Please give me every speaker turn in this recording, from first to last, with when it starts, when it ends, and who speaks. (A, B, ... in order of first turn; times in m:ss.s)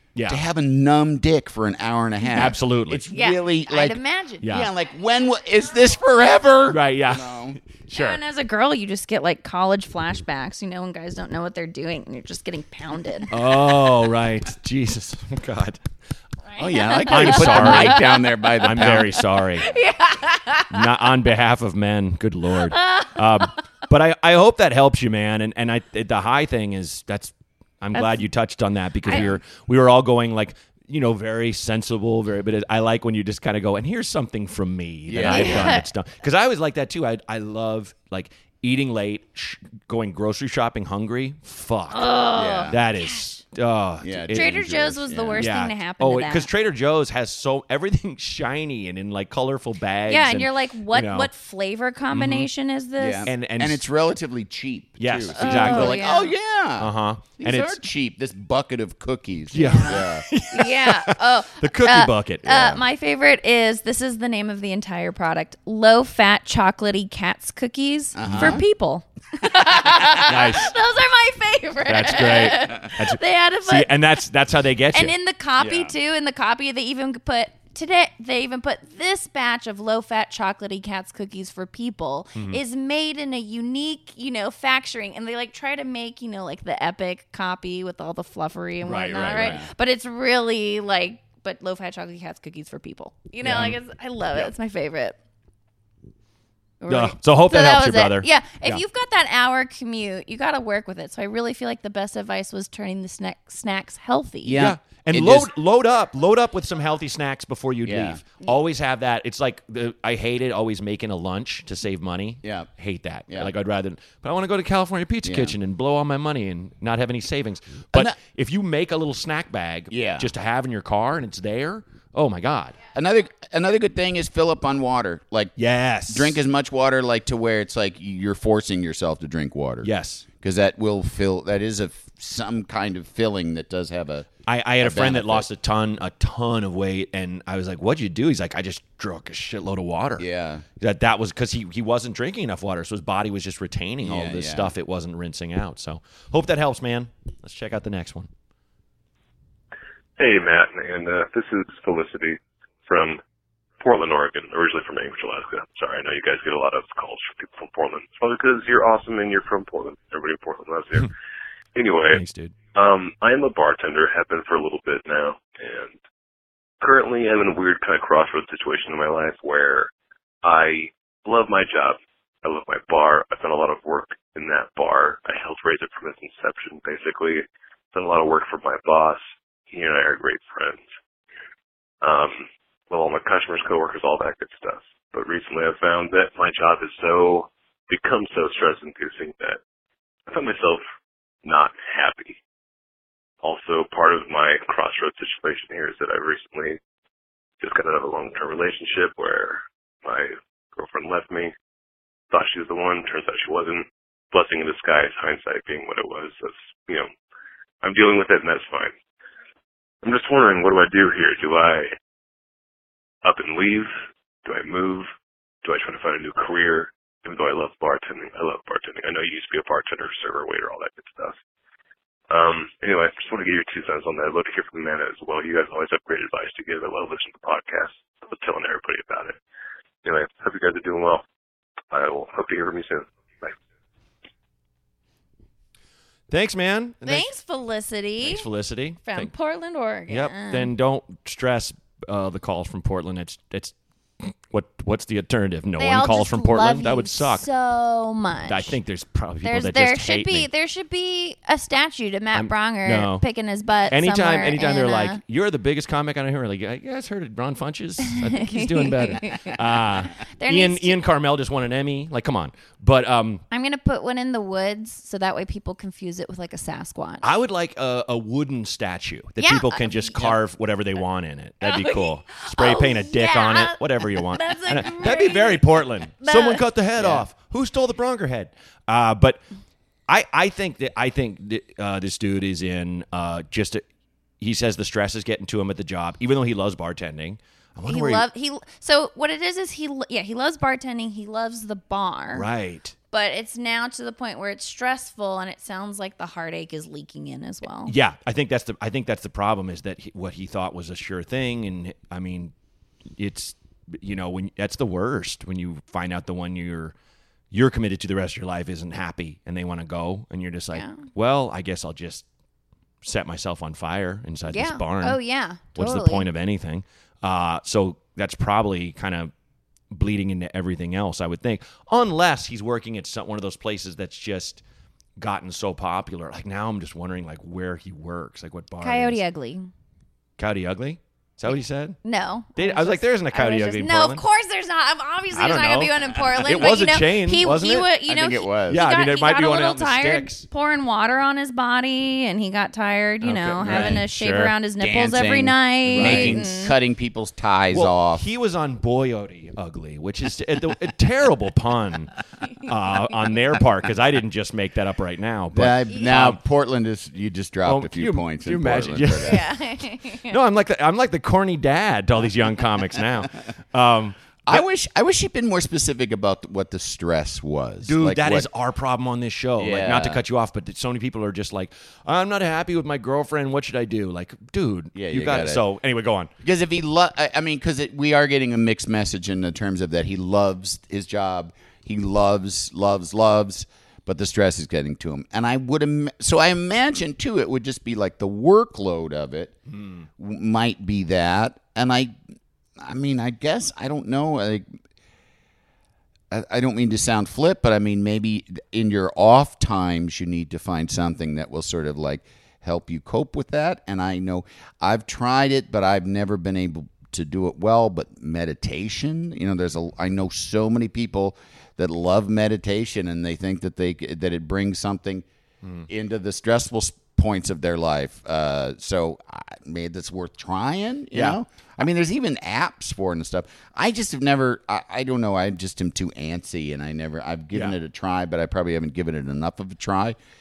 0:00.2-0:00.4 A
0:00.3-0:07.6 B
0:02.4-0:03.0 A
0:03.1-0:04.5 C
0:04.4-0:04.7 A
0:06.7-0:08.2 A
0:07.9-0:13.3 C
0:13.3-0:15.8 A
0:16.5-0:18.8 C
0:16.6-0:18.0 A
0:16.6-0:19.1 B
0:18.6-0:19.7 A
0:19.6-0:20.8 C
0:20.7-0:42.1 A
0:22.7-0:23.1 C
0:28.0-0:28.2 C
0:29.1-0:29.4 B
0:35.1-0:35.8 B
0:35.2-0:35.8 C
0:41.9-0:43.2 C
0:42.3-0:42.8 B
0:42.7-0:44.6 A
0:44.0-0:45.5 B
0:44.3-0:46.5 C
0:45.4-0:51.3 A
0:50.1-0:53.3 C
0:52.1-0:52.5 A
0:53.0-1:00.3 B
0:53.3-0:53.8 A
0:55.0-0:56.0 A
0:55.4-0:56.3 C
0:56.8-0:57.8 A
0:59.5-1:02.5 A
0:59.6-1:13.9 C
1:02.4-1:02.8 B
1:08.2-1:08.6 B
1:08.2-1:08.6 A
1:10.2-1:10.7 A
1:11.8-1:15.1 A
1:14.9-1:35.2 C
1:15.6-1:15.9 B
1:28.8-1:29.6 A
1:29.3-1:29.7 B
1:33.4-1:33.8 A
1:36.8-1:44.6 C
1:36.9-1:38.8 A
1:44.4-1:45.5 B
1:44.5-2:02.8 A
1:47.8-1:48.2 B
1:52.4-1:52.7 B
1:55.2-1:55.6 B
1:59.9-2:00.3 B
2:02.9-2:05.6 B
2:05.6-2:06.4 A
2:06.1-2:15.5 B
2:09.8-2:10.3 A
2:14.5-2:20.2 A
2:20.2-2:20.6 B
2:20.8-2:28.3 A
2:24.0-2:24.7 B
2:30.2-2:33.2 D
2:33.8-2:41.1 D
2:41.7-2:42.2 D
2:42.1-2:42.6 A
2:42.7-2:46.0 D
2:46.8-2:49.9 D
2:50.4-3:00.9 D
3:02.0-3:09.6 D
3:10.3-3:10.8 D
3:11.4-3:12.4 D
3:13.4-3:16.8 D
3:17.6-3:21.5 D
3:22.3-3:27.1 D
3:27.8-3:28.9 D
3:30.0-3:31.9 D
3:33.2-3:33.9 D
3:34.4-3:35.1 D
3:35.6-3:41.4 D
3:42.3-3:49.4 D
3:50.0-3:51.2 D
3:51.9-3:53.6 D
3:56.3-3:57.3 A
3:57.0-3:58.5 C
3:58.2-3:59.3 A
3:59.0-4:00.7 C
4:00.1-4:07.5 A
4:05.8-4:08.8 C
4:08.5-4:10.5 A
4:09.4-4:15.2 C
4:12.3-4:13.2 A
4:13.9-4:23.4 A
4:18.1-4:21.0 C
4:23.5-4:27.2 C
4:27.2-4:39.4 A
4:29.4-4:30.4 C
4:31.6-4:36.6 C
4:37.0-4:37.3 B
4:40.1-4:43.8 A
4:44.4-4:48.2 A
4:47.9-4:52.5 C
4:52.3-4:52.9 A
4:53.1-4:58.0 C
4:57.9-5:02.5 A
5:03.2-5:06.9 A
5:07.5-5:12.3 A
5:10.7-5:11.0 C
5:13.0-5:15.2 A
5:14.5-5:16.3 C
5:15.8-5:19.3 A
5:19.9-5:24.6 A
5:25.2-5:29.2 A
5:28.8-5:29.7 C
5:30.4-5:32.0 A
5:32.0-5:46.8 C
5:32.6-5:34.2 A
5:35.3-5:37.9 A
5:38.1-5:38.8 B
5:38.7-5:40.5 A
5:43.2-5:44.5 A
5:43.6-5:44.0 B
5:44.8-5:48.2 B
5:45.9-5:46.5 A
5:47.7-5:56.4 A
5:55.5-5:59.4 B
5:57.6-5:59.5 A
5:59.2-6:00.4 C
6:00.3-6:04.6 A
6:04.5-6:08.5 B
6:07.8-6:16.3 A
6:09.6-6:10.2 B
6:15.0-6:15.6 B
6:16.4-6:29.6 B
6:29.7-6:30.1 A
6:30.2-6:32.1 B
6:32.8-6:34.7 B
6:36.3-6:55.2 B
6:55.6-6:55.9 A
6:55.9-7:10.2 B
7:01.1-7:01.4 A